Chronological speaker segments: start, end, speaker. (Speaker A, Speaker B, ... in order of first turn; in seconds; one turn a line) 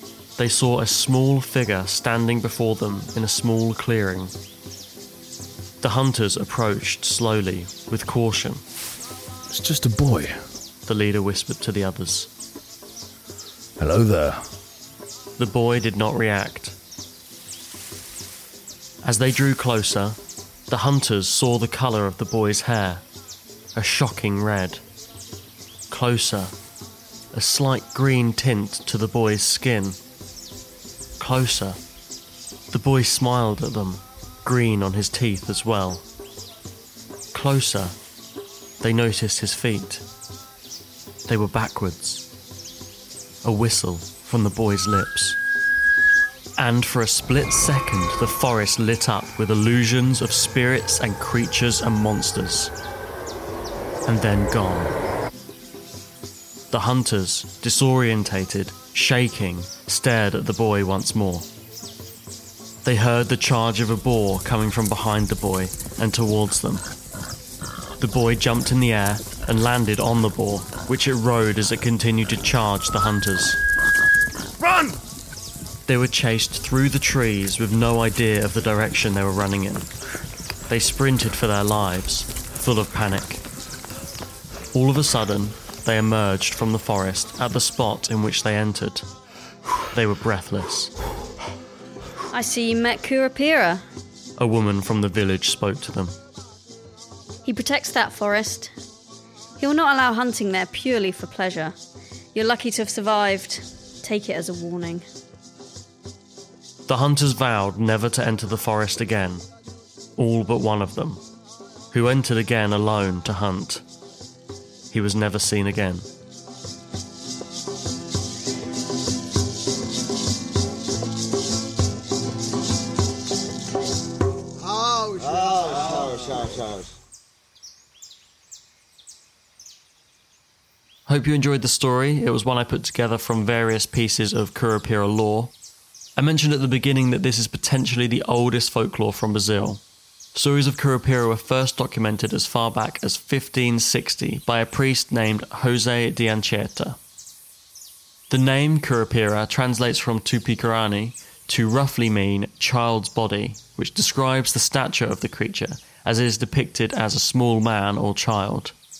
Speaker A: 0.4-4.3
Speaker A: 5.8-8.6
Speaker B: 9.5-10.3
Speaker A: 10.8-12.3
Speaker B: 13.8-14.4
Speaker A: 15.4-16.8
Speaker A: 19.0-23.0
Speaker A: 23.7-24.8
Speaker A: 25.9-26.5
Speaker A: 27.3-30.0
Speaker A: 31.2-31.8
Speaker A: 32.7-36.0
Speaker A: 37.3-38.0
Speaker A: 38.8-40.0
Speaker A: 41.3-42.3
Speaker A: 43.4-45.4
Speaker A: 46.6-52.7
Speaker A: 54.0-55.0
Speaker A: 56.7-61.5
Speaker A: 62.8-66.8
Speaker A: 68.0-73.6
Speaker B: 74.6-75.0
Speaker A: 75.8-79.9
Speaker A: 80.7-83.4
Speaker A: 84.7-89.1
Speaker A: 89.9-90.9
Speaker C: 92.3-93.8
Speaker A: 94.4-96.2
Speaker C: 97.4-98.7
Speaker C: 99.6-101.7
Speaker C: 102.3-105.0
Speaker A: 106.9-109.4
Speaker A: 110.2-111.2
Speaker A: 111.9-113.8
Speaker A: 114.9-116.0
Speaker A: 131.1-135.5
Speaker A: 136.2-139.8
Speaker A: 140.3-147.0
Speaker A: 148.3-158.7